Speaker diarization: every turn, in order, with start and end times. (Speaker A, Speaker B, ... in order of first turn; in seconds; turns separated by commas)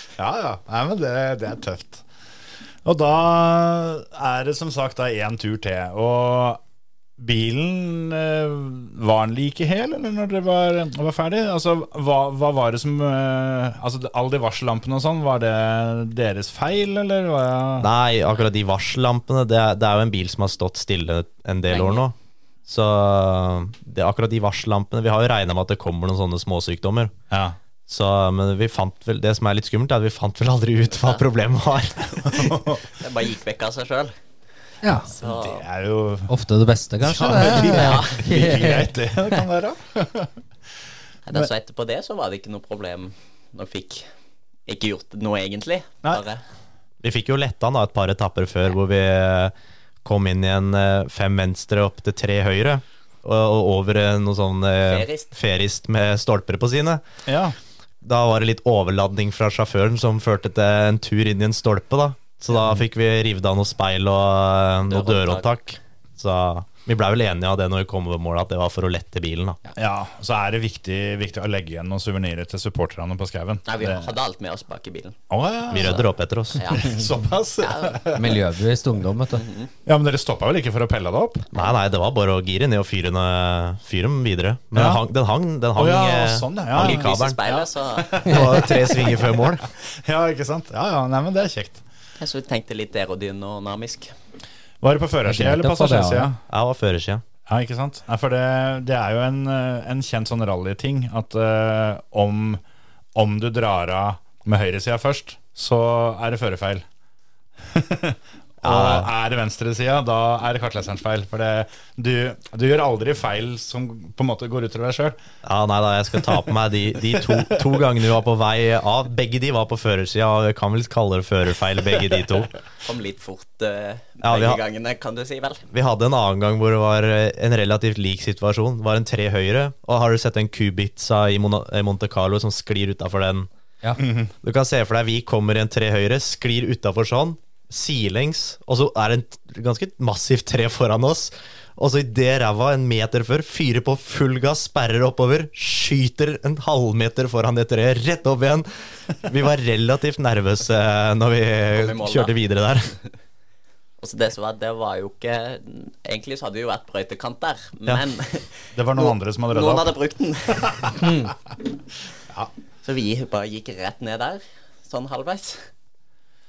Speaker A: 0.2-2.0, Speaker A: 2.8-6.6, Speaker A: 7.2-17.9, Speaker B: 17.8-22.1, Speaker C: 21.7-22.0, Speaker B: 22.7-27.1, Speaker A: 27.3-27.6, Speaker B: 27.9-32.1, Speaker C: 30.9-31.2, Speaker C: 32.0-32.3, Speaker A: 32.2-32.8, Speaker C: 32.9-34.1, Speaker D: 34.8-35.1, Speaker C: 35.0-35.6, Speaker A: 35.2-36.3, Speaker D: 36.3-39.4, Speaker A: 37.0-40.3, Speaker C: 37.3-38.3, Speaker C: 41.3-44.1, Speaker C: 44.7-46.4, Speaker B: 47.0-49.5, Speaker B: 50.0-57.0, Speaker C: 54.9-55.4, Speaker A: 57.3-57.6, Speaker B: 58.0-69.6, Speaker C: 64.9-65.5, Speaker A: 69.8-74.1, Speaker C: 73.7-75.2, Speaker A: 75.3-76.0, Speaker B: 75.7-76.7, Speaker C: 75.8-76.0, Speaker C: 76.6-77.0, Speaker A: 76.7-78.4, Speaker C: 77.6-78.1, Speaker D: 78.2-79.4, Speaker C: 79.3-79.7, Speaker A: 79.9-81.5, Speaker B: 81.5-87.4, Speaker A: 84.7-85.0, Speaker A: 85.8-91.8, Speaker C: 86.8-88.8, Speaker B: 88.3-89.7, Speaker C: 92.2-94.1, Speaker A: 94.8-96.4, Speaker D: 95.3-96.3, Speaker B: 96.5-97.2, Speaker A: 97.5-102.6, Speaker A: 103.2-106.8, Speaker A: 107.6-115.2, Speaker B: 108.6-109.1, Speaker B: 115.4-122.6, Speaker A: 117.1-117.7, Speaker C: 122.8-125.7, Speaker B: 124.2-124.6, Speaker B: 125.7-133.5, Speaker A: 134.0-134.3, Speaker B: 134.4-153.0, Speaker C: 151.7-152.3, Speaker C: 154.0-160.9, Speaker A: 158.7-159.9, Speaker D: 161.0-161.3, Speaker C: 162.8-165.7